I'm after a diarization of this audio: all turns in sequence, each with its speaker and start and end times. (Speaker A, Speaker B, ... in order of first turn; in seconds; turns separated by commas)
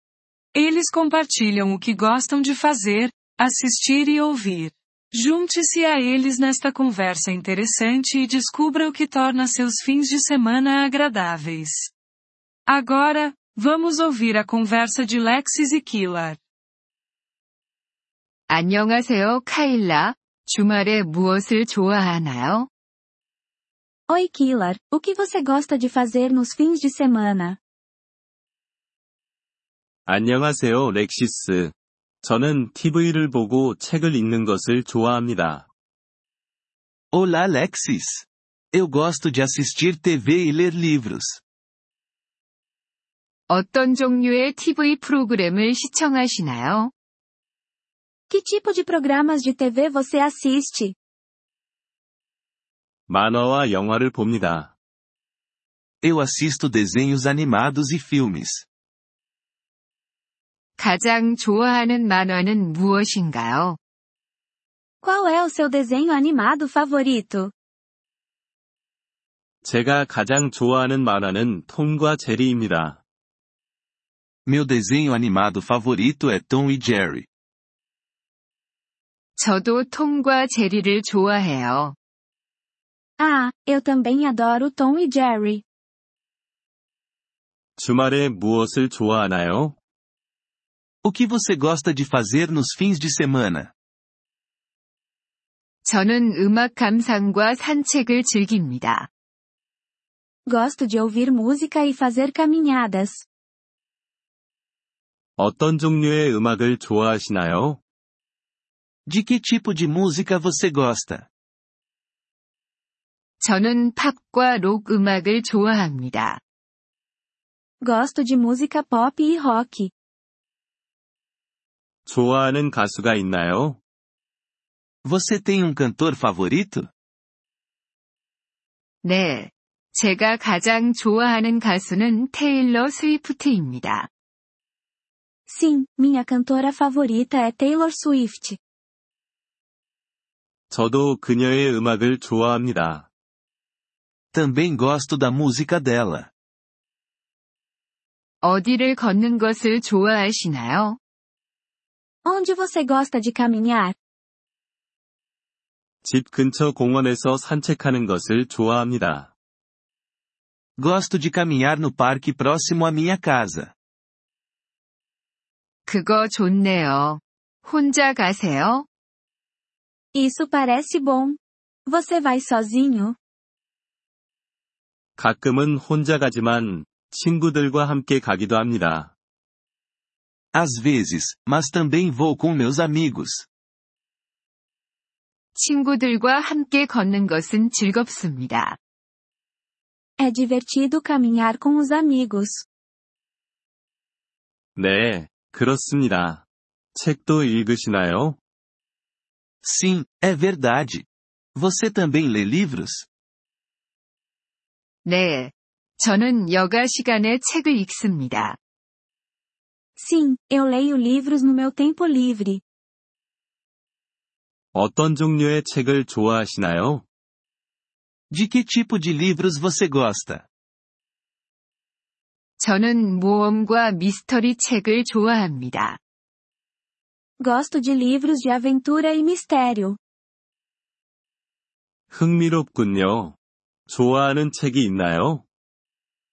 Speaker A: 0.5-11.9, Speaker A: 12.7-16.4, Speaker B: 18.5-22.7, Speaker C: 24.1-27.6, Speaker D: 30.1-35.6, Speaker E: 37.1-41.4, Speaker B: 43.5-46.9, Speaker C: 48.3-51.0, Speaker D: 53.1-54.7, Speaker E: 56.0-58.6, Speaker B: 60.8-63.8, Speaker C: 65.0-67.5, Speaker D: 69.6-73.0, Speaker E: 74.5-77.3, Speaker B: 79.4-81.9, Speaker C: 83.2-85.6, Speaker D: 87.8-89.8, Speaker E: 91.0-93.7, Speaker B: 95.8-99.1, Speaker C: 100.5-103.2, Speaker D: 105.4-107.8, Speaker E: 109.1-111.3, Speaker B: 113.4-116.4, Speaker C: 117.8-119.9, Speaker D: 122.0-123.8, Speaker E: 125.0-126.9, Speaker B: 129.0-134.1, Speaker C: 135.5-138.6, Speaker D: 140.7-143.1, Speaker E: 144.3-146.3, Speaker B: 148.4-151.0, Speaker C: 152.2-153.9, Speaker D: 156.0-159.3, Speaker E: 160.8-163.7, Speaker B: 165.9-168.9, Speaker C: 170.1-173.2, Speaker D: 175.2-179.1, Speaker E: 180.5-183.4, Speaker B: 185.5-188.8, Speaker C: 190.2-192.7, Speaker D: 194.8-198.4, Speaker E: 199.6-203.1, Speaker B: 205.0-208.6, Speaker C: 209.9-212.6, Speaker D: 214.7-217.0, Speaker E: 218.3-220.4, Speaker B: 222.6-226.0, Speaker C: 227.4-230.0, Speaker D: 232.1-233.3, Speaker D: 233.9-235.4